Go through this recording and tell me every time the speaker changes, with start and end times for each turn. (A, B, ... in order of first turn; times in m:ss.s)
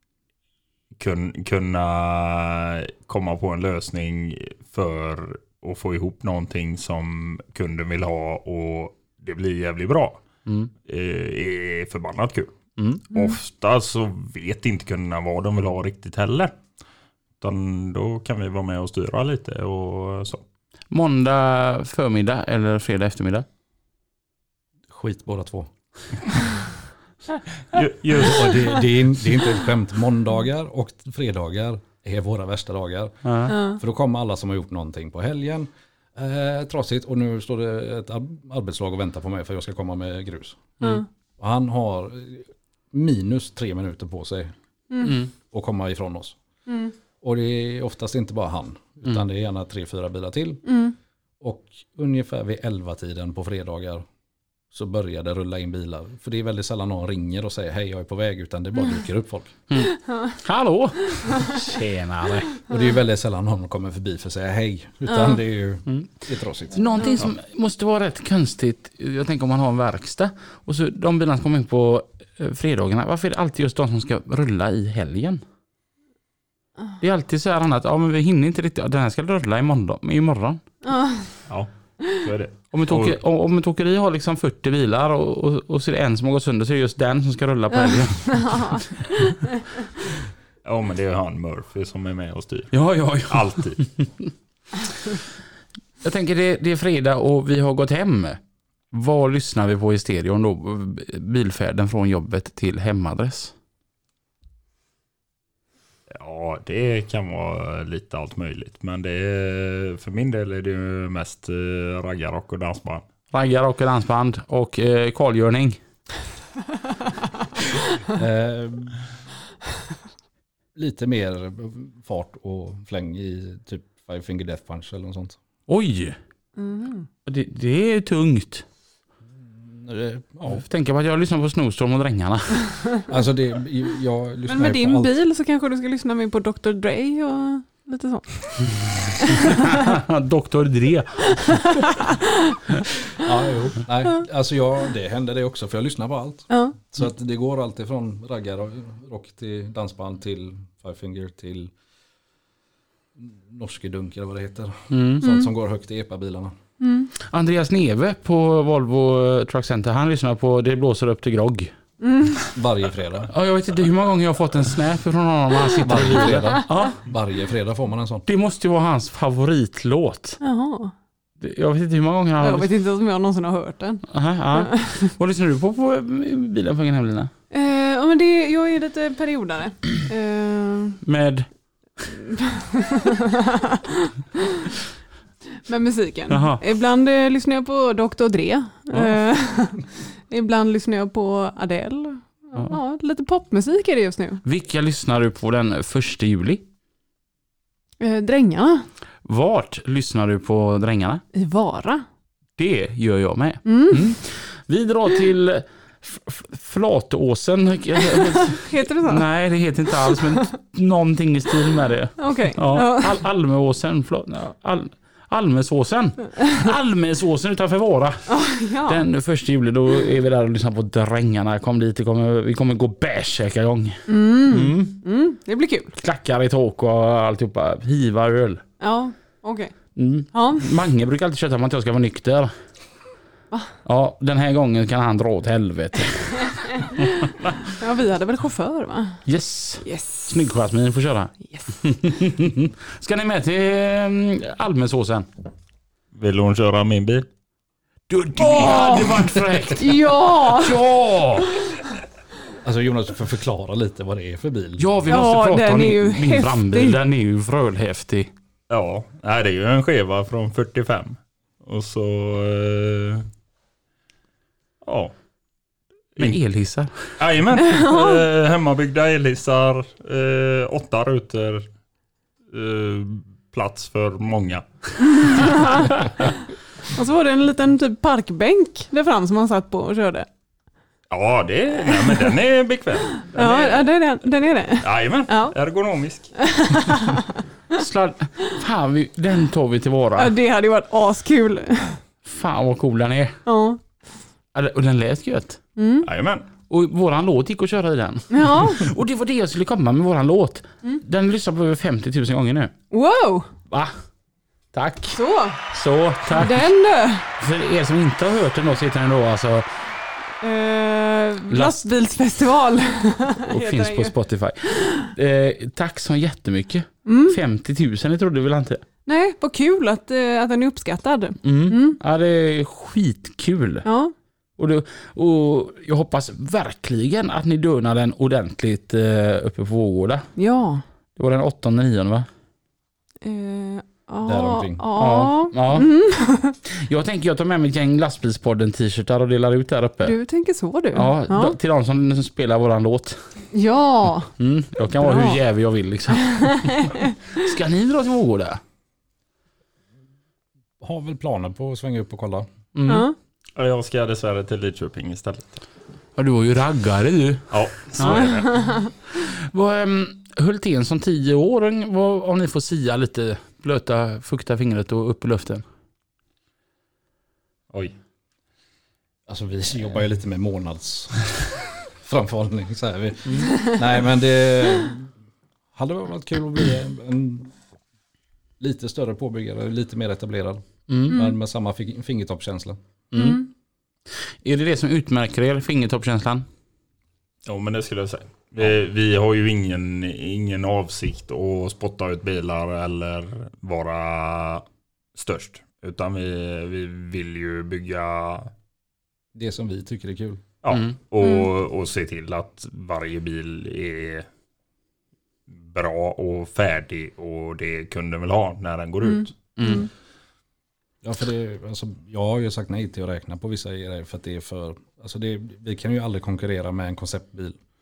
0:01.0-0:10.2 A
0:10.8-0:12.6 A
0:12.8-0:13.0 B
0:13.1-0:16.6 A
0:17.4-0:20.4 A
0:20.9-0:23.4 B
0:24.9-0:25.7 C
0:27.7-0:28.6 A
0:28.1-0:40.7 C
0:33.2-0:33.5 B
0:33.5-0:33.8 D
0:41.4-0:44.5 C
0:44.9-0:45.2 D
0:45.0-0:45.3 B
0:45.4-0:46.4 C
0:46.7-0:46.9 D
0:47.2-0:50.7 C
0:50.7-0:50.9 D
0:51.4-0:54.0 C
0:54.7-0:59.6 C
0:59.7-1:02.5 B
1:02.7-1:06.9 C
1:05.1-1:05.4 D
1:06.7-1:15.4 B
1:17.0-1:20.6 B
1:20.8-1:21.3 D
1:22.2-1:23.2 A
1:22.7-1:28.9 B
1:27.8-1:29.6 D
1:30.6-1:33.9 A
1:32.7-1:33.8 B
1:36.0-1:38.4 B
1:38.9-1:43.5 B
1:46.1-1:53.0 A
1:53.3-1:55.8 B
1:58.1-1:59.0 C
2:00.7-2:05.4 C
2:05.7-2:06.2 B
2:06.6-2:07.1 D
2:07.2-2:08.6 B
2:09.4-2:10.6 C
2:10.5-2:12.7 B
2:13.1-2:15.1 C
2:14.5-2:19.8 D
2:19.3-2:21.8 B
2:21.4-2:22.2 D
2:23.2-2:31.7 C
2:26.5-2:26.8 D
2:33.2-2:36.6 C
2:34.9-2:35.2 B
2:36.8-2:37.1 D
2:37.2-2:41.7 B
2:42.0-2:42.4 D
2:42.5-2:43.3 C
2:43.3-2:47.0 B
2:45.8-2:48.2 C
2:48.2-2:50.4 B
2:50.4-2:50.9 D
2:51.4-2:52.7 B
2:52.4-2:55.0 D
2:54.1-2:57.3 B
2:57.5-3:01.0 D
3:01.0-3:01.5 B
3:02.1-3:04.7 D
3:05.6-3:14.4 D
3:06.3-3:06.6 B
3:14.4-3:16.6 B
3:18.0-3:18.9 D
3:19.2-3:21.2 B
3:21.3-3:22.0 D
3:22.6-3:38.3 B
3:23.6-3:24.1 D
3:28.0-3:29.2 D
3:30.0-3:30.5 D
3:32.2-3:33.2 D
3:38.3-3:39.0 D
3:38.9-3:44.9 B
3:44.1-3:46.0 D
3:46.0-3:48.6 B
3:48.8-3:49.7 D
3:50.0-3:52.5 B
3:50.3-3:50.7 D
3:53.8-3:56.6 B
3:56.7-3:59.2 D
3:59.2-4:05.3 B
3:59.8-4:00.3 D
4:06.1-4:07.3 A
4:08.1-4:11.6 B
4:08.4-4:10.8 D
4:12.6-4:14.9 C
4:14.8-4:18.3 B
4:15.0-4:17.0 D
4:18.7-4:23.3 A
4:24.8-4:25.1 A
4:26.2-4:27.0 B
4:27.2-4:31.6 A
4:27.6-4:28.2 D
4:32.5-4:34.6 A
4:35.2-4:36.0 D
4:36.9-4:40.3 D
4:41.1-4:43.9 A
4:43.3-4:45.5 D
4:44.8-4:46.3 A
4:46.4-4:47.8 D
4:47.8-4:50.3 B
4:50.2-4:52.0 D
4:52.2-4:53.4 B
4:53.4-4:53.8 D
4:54.5-4:55.6 B
4:55.8-4:56.1 D
4:56.0-4:56.5 A
4:56.7-5:02.7 B
4:58.3-4:58.9 D
5:02.9-5:03.5 D
5:04.7-5:05.2 B
5:05.1-5:05.6 D
5:05.7-5:06.6 B
5:06.4-5:07.3 D
5:07.4-5:09.7 B
5:10.4-5:14.1 D
5:11.5-5:11.9 B
5:13.4-5:18.8 B
5:14.8-5:15.1 D
5:17.0-5:17.4 D
5:19.0-5:22.0 D
5:21.4-5:23.8 B
5:23.8-5:24.1 D
5:24.6-5:30.3 B
5:30.4-5:30.8 D
5:31.2-5:32.3 B
5:33.2-5:36.6 D
5:34.2-5:34.8 C
5:35.0-5:35.9 B
5:36.7-5:40.2 B
5:40.0-5:41.6 D
5:40.9-5:43.2 B
5:43.5-5:44.3 D
5:44.4-5:48.6 B
5:45.0-5:45.4 D
5:46.1-5:47.1 D
5:50.8-5:52.5 C
5:52.7-5:53.1 B
5:52.8-5:53.2 D
5:53.6-5:55.6 A
5:56.2-5:58.3 B
5:57.5-5:58.6 A
5:58.1-5:58.9 D
5:59.1-6:05.6 B
6:09.3-6:11.3 C
6:12.0-6:15.1 C
6:15.7-6:17.5 C
6:18.6-6:22.8 C
6:20.9-6:21.2 B
6:23.1-6:23.4 B
6:23.1-6:23.5 D
6:24.4-6:26.4 B
6:27.4-6:38.5 A
6:39.3-6:40.4 C
6:40.6-6:44.3 A
6:45.6-6:49.3 A
6:49.6-6:49.9 B
6:49.6-6:49.9 D
6:51.0-6:57.6 C